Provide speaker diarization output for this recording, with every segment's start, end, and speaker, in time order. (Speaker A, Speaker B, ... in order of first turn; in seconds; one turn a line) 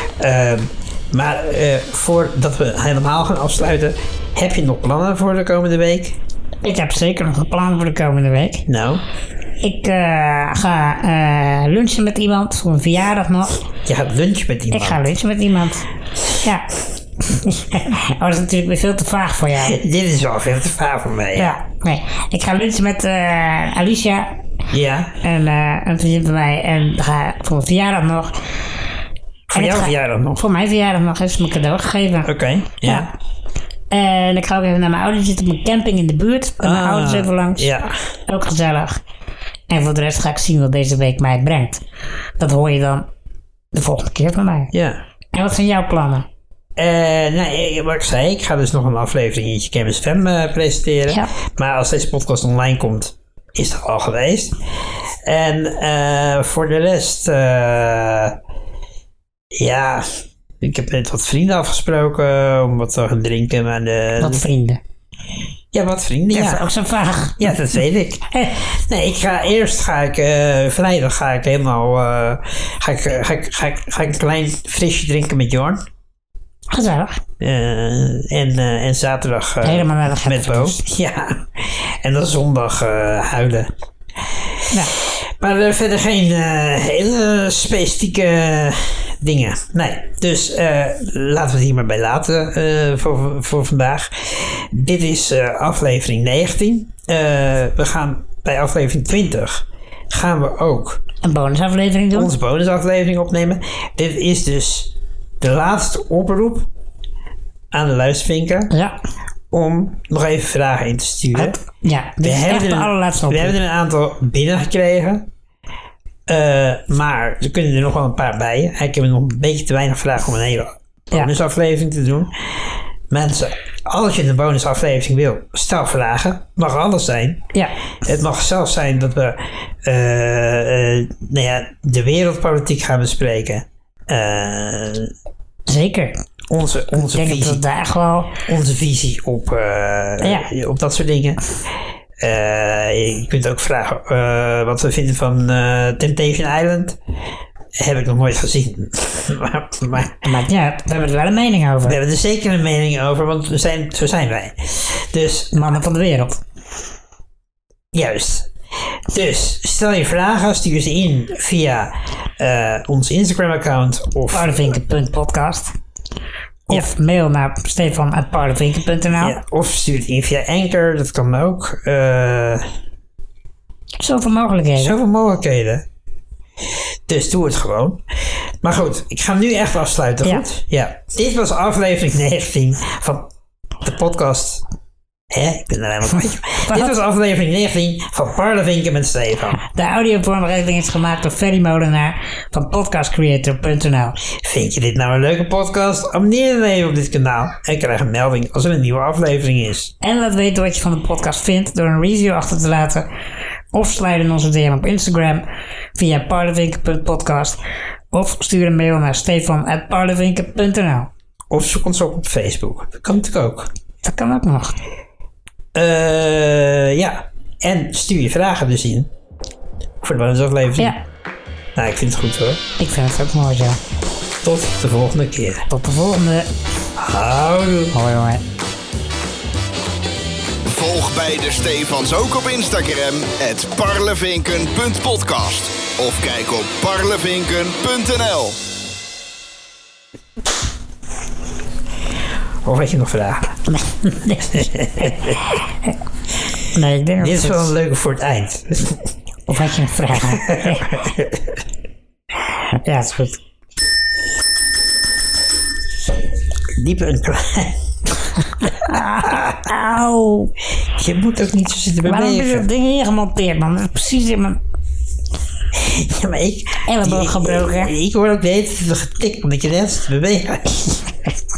Speaker A: 0.2-6.2
Speaker B: 6.6-8.7
Speaker A: 8.7-9.0
Speaker B: 9.6-13.6
Speaker A: 13.8-15.1
Speaker B: 14.7-15.8
Speaker B: 16.4-16.7
Speaker B: 17.3-19.8
Speaker A: 19.6-21.5
Speaker B: 21.4-24.4
Speaker A: 24.7-25.2
Speaker B: 25.2-28.3
Speaker A: 29.5-30.4
Speaker B: 29.5-32.3
Speaker A: 32.2-33.1
Speaker B: 32.8-33.1
Speaker B: 33.9-37.7
Speaker A: 36.6-38.0
Speaker B: 38.3-39.0
Speaker B: 39.7-41.8
Speaker B: 42.4-43.0
Speaker B: 43.7-44.7
Speaker A: 44.7-45.0
Speaker B: 45.3-46.2
Speaker A: 46.8-54.5
Speaker A: 55.2-58.4
Speaker A: 59.5-64.5
Speaker B: 64.2-64.8
Speaker A: 65.7-66.7
Speaker B: 66.3-67.5
Speaker A: 67.4-75.8
Speaker B: 68.3-68.5
Speaker B: 76.7-77.2
Speaker A: 77.4-83.7
Speaker B: 79.6-80.8
Speaker A: 84.9-101.0
Speaker B: 101.2-102.3
Speaker A: 102.1-106.7
Speaker A: 107.7-108.7
Speaker B: 108.7-109.0
Speaker A: 109.5-111.5
Speaker B: 111.3-113.5
Speaker A: 112.2-115.3
Speaker A: 116.3-122.4
Speaker A: 123.1-127.5
Speaker A: 128.0-135.1
Speaker B: 135.7-136.2
Speaker A: 136.5-137.6
Speaker B: 137.0-138.4
Speaker A: 138.4-141.5
Speaker B: 140.2-140.5
Speaker A: 142.2-147.0
Speaker A: 147.8-150.2
Speaker B: 150.2-152.0
Speaker A: 151.8-155.6
Speaker B: 155.5-156.4
Speaker A: 157.9-158.5
Speaker A: 159.1-164.7
Speaker B: 164.3-165.7
Speaker B: 166.7-169.4
Speaker A: 169.2-172.6
Speaker B: 174.0-174.9
Speaker A: 174.8-175.8
Speaker A: 177.1-178.0
Speaker A: 178.6-183.3
Speaker A: 183.8-184.6
Speaker A: 185.3-189.6
Speaker B: 186.7-186.9
Speaker B: 189.7-194.2
Speaker A: 194.3-199.9
Speaker B: 200.0-203.1
Speaker B: 203.7-205.4
Speaker B: 205.9-207.6
Speaker B: 208.1-211.1
Speaker A: 211.5-213.7
Speaker B: 214.0-214.8
Speaker A: 215.7-219.1
Speaker A: 220.0-220.9
Speaker A: 221.8-222.6
Speaker B: 222.8-223.8
Speaker A: 224.4-225.7
Speaker B: 225.7-226.5
Speaker A: 226.9-227.9
Speaker B: 227.9-228.4
Speaker C: 230.7-238.6
Speaker A: 242.6-243.6
Speaker B: 243.7-245.2
Speaker A: 244.5-245.4
Speaker B: 246.7-247.7
Speaker A: 247.2-249.1
Speaker B: 249.5-250.8
Speaker A: 250.2-251.6
Speaker B: 252.8-253.4
Speaker A: 256.8-257.8
Speaker B: 258.6-260.5
Speaker A: 259.2-259.6
Speaker A: 260.9-262.7
Speaker B: 262.0-264.6
Speaker A: 265.7-271.0
Speaker B: 266.9-267.9